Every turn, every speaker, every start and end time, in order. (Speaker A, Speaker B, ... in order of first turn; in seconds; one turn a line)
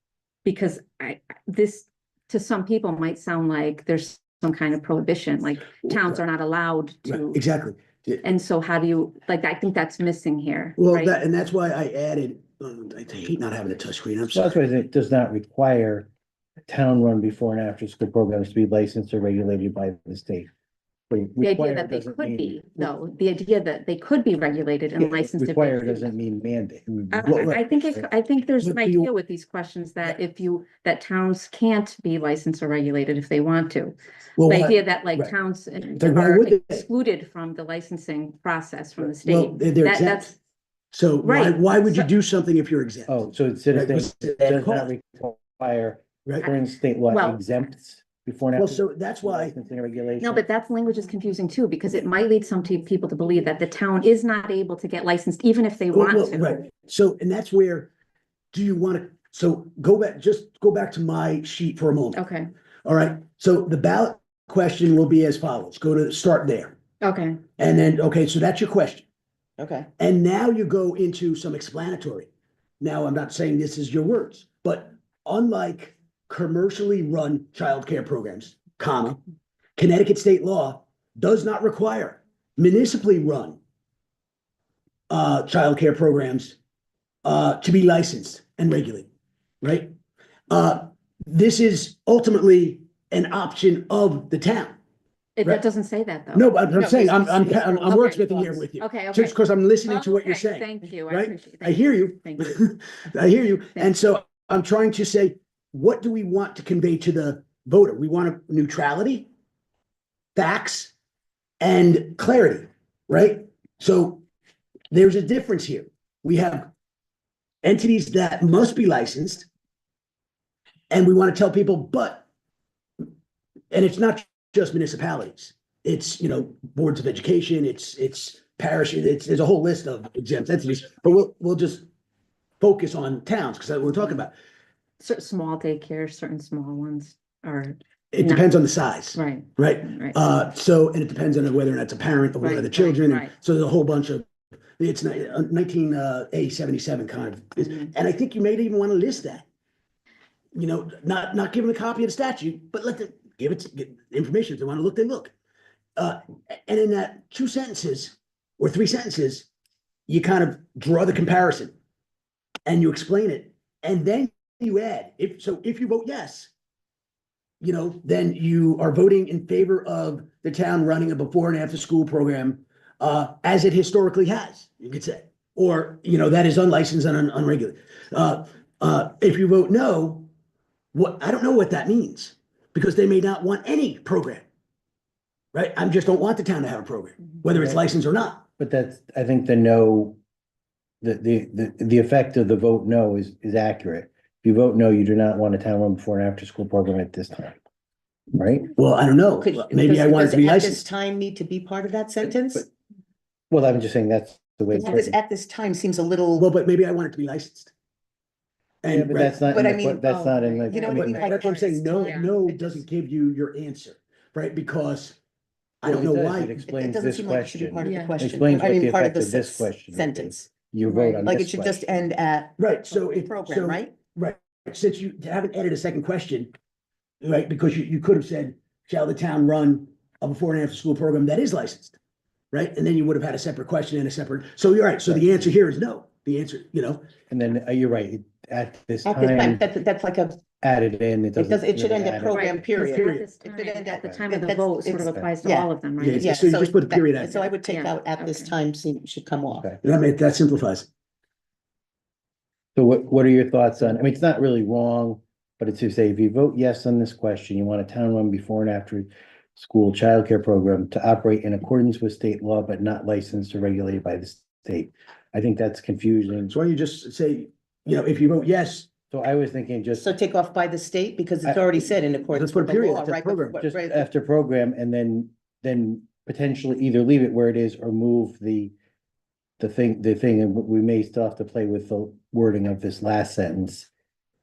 Speaker A: 0.4-7.4
Speaker B: 5.9-6.2
Speaker B: 7.1-8.3
Speaker A: 8.2-11.2
Speaker B: 10.8-14.6
Speaker C: 14.3-16.1
Speaker C: 16.7-20.5
Speaker C: 21.1-22.9
Speaker A: 21.4-26.1
Speaker C: 25.3-28.0
Speaker A: 27.1-40.4
Speaker B: 27.2-27.6
Speaker B: 28.6-29.1
Speaker B: 34.4-35.3
Speaker B: 36.0-36.9
Speaker B: 39.0-40.3
Speaker B: 40.9-43.2
Speaker A: 41.2-42.1
Speaker C: 43.1-50.4
Speaker B: 43.7-44.9
Speaker B: 46.2-46.5
Speaker A: 47.1-47.4
Speaker B: 48.6-49.5
Speaker A: 50.2-56.6
Speaker B: 55.9-57.9
Speaker B: 58.5-62.2
Speaker A: 62.1-62.5
Speaker B: 62.8-66.7
Speaker A: 67.0-67.4
Speaker B: 67.6-69.0
Speaker D: 69.6-69.9
Speaker B: 70.0-72.3
Speaker B: 72.8-79.2
Speaker B: 79.8-83.6
Speaker B: 85.1-86.5
Speaker B: 87.2-89.1
Speaker B: 89.6-89.9
Speaker B: 90.5-94.8
Speaker A: 95.4-99.3
Speaker B: 96.3-109.3
Speaker D: 97.6-98.6
Speaker A: 99.8-102.5
Speaker B: 110.3-110.9
Speaker B: 111.6-114.2
Speaker B: 114.9-116.7
Speaker B: 117.6-119.5
Speaker B: 120.9-122.2
Speaker B: 123.7-131.8
Speaker B: 132.6-134.3
Speaker A: 135.0-138.5
Speaker B: 138.1-149.4
Speaker A: 139.1-140.2
Speaker A: 142.4-143.3
Speaker A: 147.6-147.9
Speaker B: 150.5-155.3
Speaker B: 155.9-159.5
Speaker B: 160.1-161.7
Speaker B: 162.7-166.5
Speaker B: 167.6-180.3
Speaker B: 180.9-184.4
Speaker B: 185.5-188.4
Speaker C: 187.5-187.8
Speaker C: 188.6-190.2
Speaker C: 191.0-197.6
Speaker C: 198.3-198.7
Speaker B: 198.8-200.8
Speaker D: 199.4-202.7
Speaker C: 203.5-205.1
Speaker D: 204.7-206.5
Speaker A: 204.8-205.1
Speaker B: 206.4-207.7
Speaker B: 208.8-209.4
Speaker C: 208.9-211.2
Speaker D: 209.4-210.1
Speaker A: 210.0-212.8
Speaker D: 210.7-211.7
Speaker B: 210.9-215.2
Speaker B: 215.8-216.6
Speaker C: 215.8-221.9
Speaker D: 216.6-220.5
Speaker A: 217.8-218.2
Speaker A: 220.8-221.2
Speaker D: 221.2-223.9
Speaker B: 222.6-226.5
Speaker B: 227.2-232.0
Speaker B: 232.5-237.0
Speaker C: 235.1-235.5
Speaker C: 237.3-239.6
Speaker D: 239.1-240.4
Speaker C: 240.6-242.7
Speaker D: 241.3-249.7
Speaker A: 242.3-246.4
Speaker B: 242.8-243.3
Speaker B: 246.0-247.5
Speaker A: 247.7-248.5
Speaker B: 249.8-250.9
Speaker C: 252.7-266.5
Speaker B: 266.5-268.9
Speaker C: 269.1-270.1
Speaker D: 270.0-274.1
Speaker C: 271.4-271.9
Speaker B: 272.3-273.6
Speaker C: 273.6-278.7
Speaker C: 279.6-283.9